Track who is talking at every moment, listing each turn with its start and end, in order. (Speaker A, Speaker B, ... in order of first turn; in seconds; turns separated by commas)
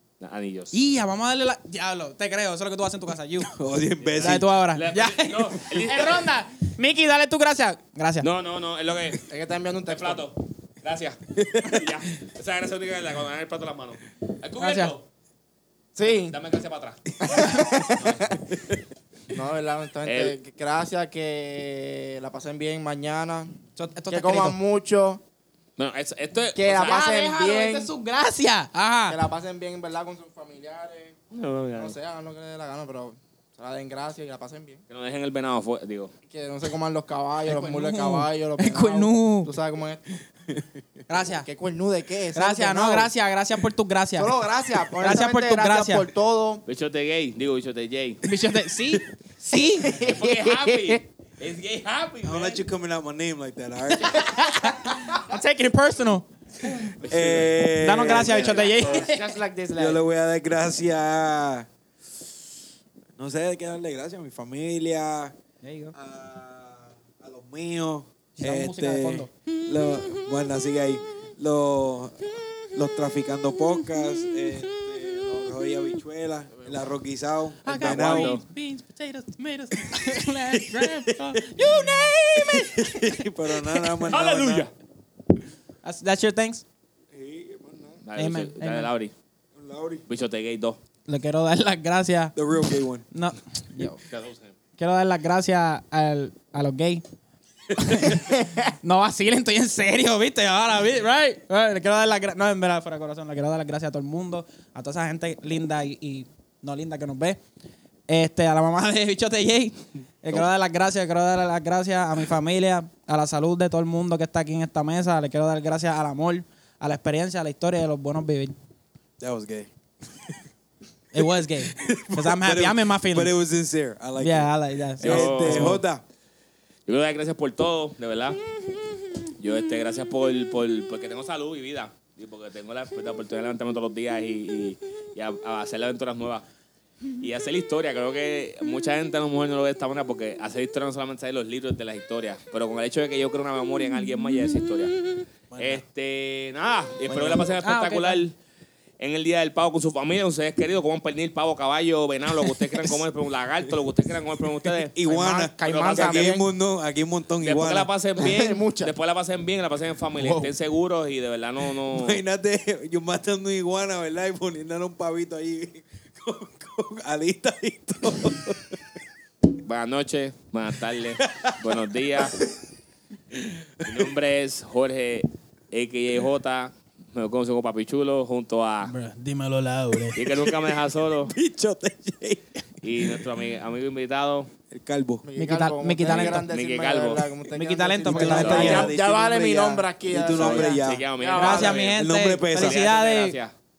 Speaker A: 0.2-0.7, Speaker B: 0.7-3.5, Speaker C: 3.4-4.5, Speaker B: 4.2-8.3, Speaker A: 4.3-6.3, Speaker A: 8.2-9.2, Speaker D: 9.2-10.3, Speaker A: 9.9-15.0, Speaker C: 11.3-12.0, Speaker B: 14.6-14.9, Speaker D: 15.9-16.4, Speaker A: 16.0-17.1, Speaker D: 17.2-18.4, Speaker A: 18.0-18.4, Speaker C: 18.5-18.8, Speaker D: 19.3-23.5, Speaker A: 20.0-20.4, Speaker B: 23.8-24.6, Speaker D: 24.1-25.2, Speaker A: 25.8-27.0, Speaker D: 26.5-27.9, Speaker B: 26.7-29.2, Speaker D: 29.1-31.1, Speaker A: 31.3-31.9, Speaker D: 31.7-34.8, Speaker A: 34.9-36.1, Speaker D: 36.3-40.0, Speaker B: 37.5-39.5, Speaker B: 41.1-41.5, Speaker D: 41.4-43.1, Speaker B: 42.3-44.3, Speaker D: 44.2-46.6, Speaker B: 45.0-46.0, Speaker A: 46.7-48.2, Speaker B: 48.2-50.0, Speaker D: 49.7-51.0, Speaker A: 49.9-52.6, Speaker C: 52.2-54.3, Speaker B: 53.9-56.3, Speaker A: 56.8-59.0, Speaker C: 57.0-58.9, Speaker B: 57.7-59.3, Speaker D: 58.4-60.0, Speaker C: 59.7-61.7, Speaker C: 63.2-65.3, Speaker B: 65.6-65.9, Speaker C: 65.9-78.3, Speaker B: 68.4-69.3, Speaker B: 77.6-83.2, Speaker A: 77.7-78.4, Speaker C: 79.9-81.7, Speaker C: 82.3-84.7, Speaker A: 84.0-84.7, Speaker B: 85.8-86.6, Speaker C: 87.1-88.0, Speaker A: 88.0-89.1, Speaker B: 88.2-88.9, Speaker C: 89.5-90.0, Speaker A: 90.1-90.8, Speaker B: 91.1-92.3, Speaker C: 92.3-93.0, Speaker B: 93.1-94.0, Speaker A: 94.1-94.5, Speaker B: 94.8-97.0, Speaker B: 97.7-98.3, Speaker B: 98.8-107.4, Speaker B: 108.1-118.5, Speaker C: 119.2-119.7, Speaker B: 121.1-123.3, Speaker C: 121.7-126.0, Speaker B: 124.2-125.8, Speaker A: 125.0-125.8, Speaker A: 126.8-128.4, Speaker A: 129.4-136.4, Speaker A: 137.2-144.9, Speaker C: 145.5-145.8, Speaker A: 145.6-148.3, Speaker C: 147.1-147.5, Speaker B: 147.6-148.2, Speaker A: 149.0-154.9, Speaker C: 154.7-157.9, Speaker D: 155.0-156.4, Speaker A: 155.6-156.4, Speaker A: 157.4-162.2, Speaker D: 158.2-158.9, Speaker D: 160.2-160.5, Speaker C: 161.9-168.9, Speaker A: 169.6-172.4, Speaker C: 171.2-172.5, Speaker C: 173.3-174.1, Speaker A: 173.8-178.9, Speaker B: 178.8-180.2, Speaker A: 180.1-181.3, Speaker C: 180.3-183.2, Speaker A: 182.8-184.5, Speaker C: 184.7-185.2, Speaker D: 185.2-191.9, Speaker B: 185.4-186.5, Speaker A: 186.0-187.2, Speaker B: 187.5-188.9, Speaker C: 188.1-191.1, Speaker A: 188.4-188.9, Speaker A: 190.2-193.5, Speaker B: 191.3-193.3, Speaker C: 191.7-192.8